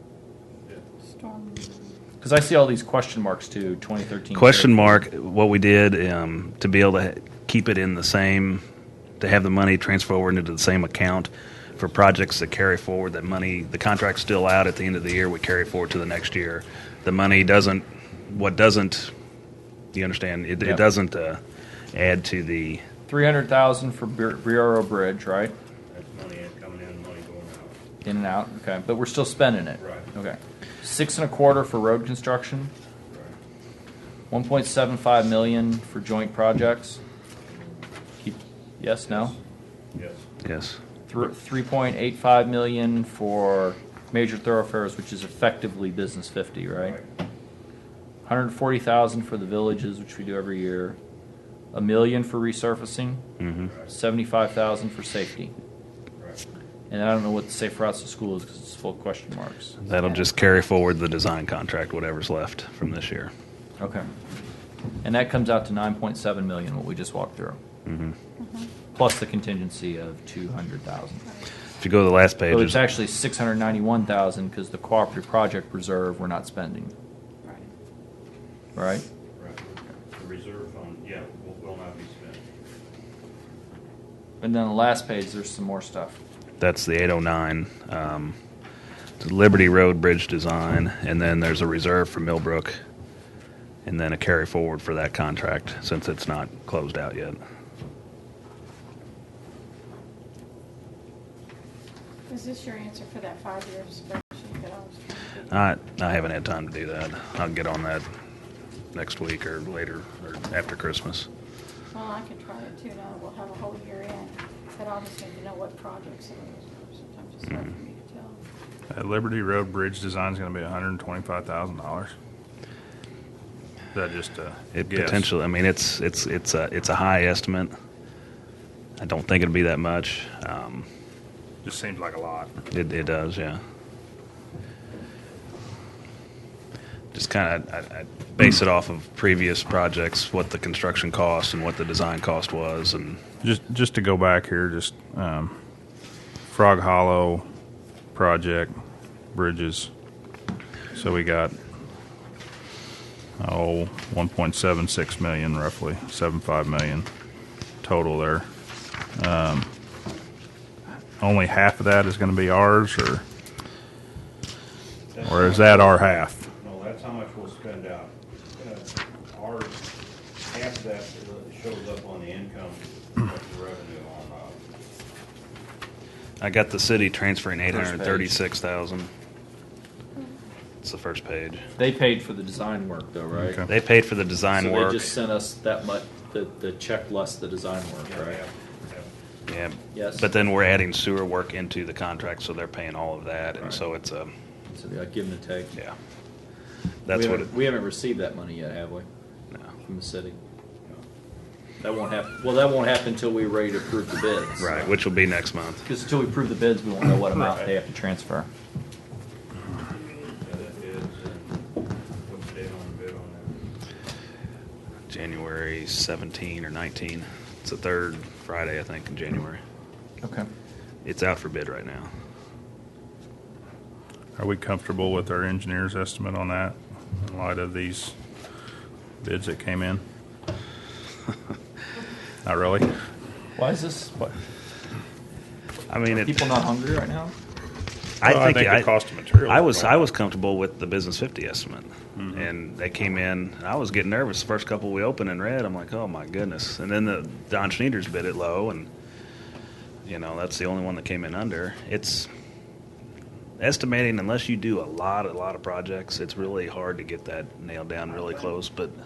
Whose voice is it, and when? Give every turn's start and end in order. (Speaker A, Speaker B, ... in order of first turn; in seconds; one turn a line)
Speaker A: 1.2-1.9
Speaker B: 2.2-5.0
Speaker C: 4.3-8.6
Speaker C: 9.2-19.1
Speaker C: 19.9-21.4
Speaker B: 20.6-20.8
Speaker C: 21.9-22.8
Speaker B: 23.1-25.5
Speaker D: 25.9-27.8
Speaker B: 28.0-32.7
Speaker D: 29.8-30.1
Speaker B: 34.3-37.0
Speaker B: 38.2-39.3
Speaker D: 39.9-40.2
Speaker C: 40.4-40.8
Speaker B: 41.1-47.0
Speaker D: 46.8-47.0
Speaker B: 48.2-51.0
Speaker B: 51.7-53.2
Speaker C: 53.4-53.7
Speaker D: 53.6-53.9
Speaker B: 53.9-55.5
Speaker B: 56.9-59.8
Speaker C: 59.8-63.3
Speaker B: 63.8-64.1
Speaker B: 65.0-67.6
Speaker C: 67.8-68.2
Speaker A: 68.4-68.7
Speaker B: 68.9-71.2
Speaker C: 71.8-72.8
Speaker B: 72.5-76.9
Speaker A: 77.4-77.7
Speaker B: 78.7-79.0
Speaker D: 79.3-82.4
Speaker B: 84.4-86.2
Speaker C: 86.6-88.3
Speaker C: 89.2-92.8
Speaker C: 93.8-97.4
Speaker A: 102.3-105.7
Speaker C: 105.5-108.0
Speaker C: 108.9-111.3
Speaker A: 111.9-118.4
Speaker E: 118.9-122.1
Speaker E: 123.9-125.3
Speaker C: 124.7-127.7
Speaker C: 129.0-130.9
Speaker E: 131.6-132.5
Speaker C: 132.7-133.6
Speaker C: 137.1-143.3
Speaker E: 143.4-145.6
Speaker E: 146.5-147.4
Speaker E: 148.1-148.7
Speaker E: 149.3-149.9
Speaker E: 150.9-151.5
Speaker E: 153.4-157.1
Speaker E: 157.8-158.5
Speaker E: 159.2-159.7
Speaker E: 161.2-163.2
Speaker D: 165.1-169.8
Speaker E: 165.2-166.5
Speaker D: 170.4-174.6
Speaker C: 176.4-179.1
Speaker B: 177.7-178.3
Speaker C: 180.8-181.7
Speaker B: 181.8-183.6
Speaker C: 183.7-185.1
Speaker B: 184.5-188.4
Speaker D: 188.0-189.1
Speaker C: 189.5-194.3
Speaker B: 189.9-190.3
Speaker B: 194.7-195.8
Speaker C: 197.1-197.5
Speaker B: 197.1-199.1
Speaker B: 199.8-200.4
Speaker B: 201.8-204.9
Speaker C: 204.6-205.8
Speaker B: 205.8-208.5
Speaker D: 209.9-211.7
Speaker D: 212.2-213.6
Speaker C: 215.1-219.6
Speaker B: 220.2-220.5
Speaker C: 221.0-222.1
Speaker E: 224.4-228.2
Speaker E: 229.2-230.0
Speaker E: 232.4-232.9
Speaker B: 233.6-234.3
Speaker C: 235.9-236.4
Speaker B: 236.1-237.3
Speaker C: 238.2-238.9
Speaker E: 238.2-240.1
Speaker C: 239.4-248.9
Speaker E: 242.2-242.5
Speaker C: 250.0-252.3
Speaker C: 253.6-258.9
Speaker D: 258.1-258.6